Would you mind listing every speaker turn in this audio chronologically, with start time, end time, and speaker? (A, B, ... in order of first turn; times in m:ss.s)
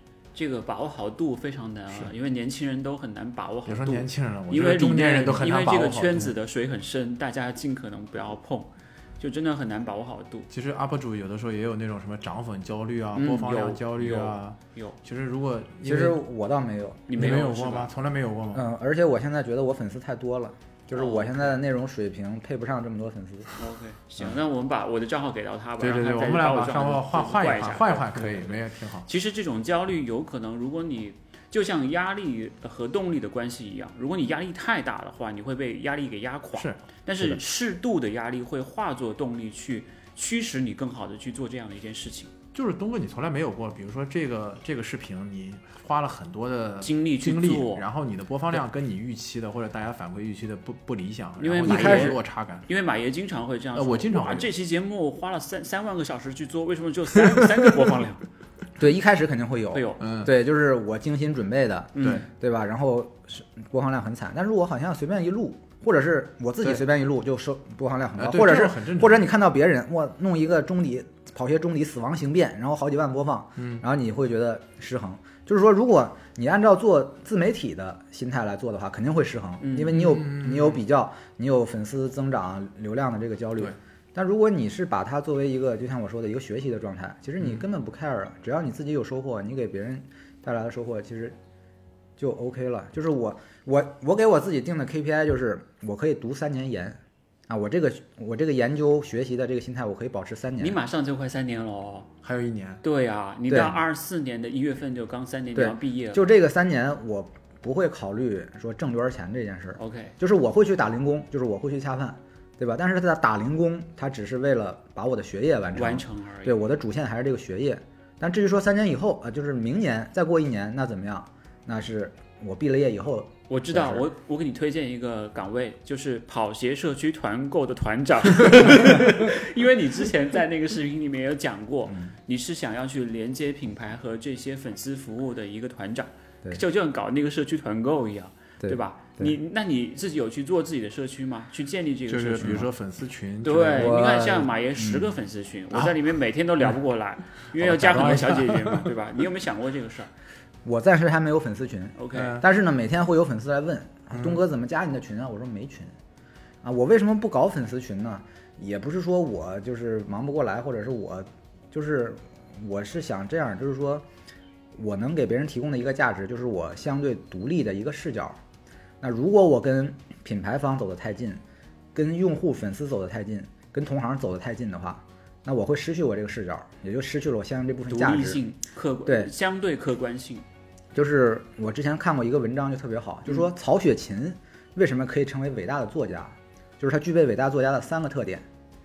0:00.3-0:10.5 A
0:03.6-0:06.4 B
0:10.5-0:16.2 B
0:13.1-0:15.0 A
0:15.8-0:17.2 C
0:17.1-0:17.9 A
0:17.1-0:18.7 B
0:18.5-0:23.5 C
0:20.9-0:21.5 A
0:23.6-0:42.3 A
0:25.8-0:29.1 B
0:36.5-0:37.4 B
0:42.5-0:52.7 B
0:46.8-0:47.8 A
0:51.4-0:58.2 A
0:51.6-0:52.2 C
0:53.7-0:54.5 B
0:58.8-1:31.4 C
0:59.7-1:00.0 A
1:00.0-1:00.3 B
1:01.9-1:02.2 A
1:02.0-1:02.3 B
1:08.2-1:09.3 B
1:13.6-1:13.8 B
1:19.6-1:20.1 A
1:19.9-1:20.8 B
1:32.2-1:40.8 C
1:40.6-1:42.1 A
1:42.2-1:42.8 B
1:42.8-1:46.2 A
1:43.5-1:43.8 C
1:45.5-2:04.1 C
1:49.8-1:50.1 A
1:55.7-1:56.6 A
2:03.5-2:22.7 A
2:18.6-2:19.3 C
2:22.1-2:24.0 B
2:23.4-2:30.1 A
2:23.8-2:25.1 C
2:27.6-2:28.9 B
2:30.6-2:35.9 C
2:32.0-2:32.4 A
2:32.1-2:32.4 B
2:36.6-2:44.0 C
2:44.7-2:48.4 C
2:49.0-2:51.4 C
2:51.9-2:58.4 C
2:57.9-3:00.4 A
2:59.0-2:59.3 C
3:00.9-3:08.4 C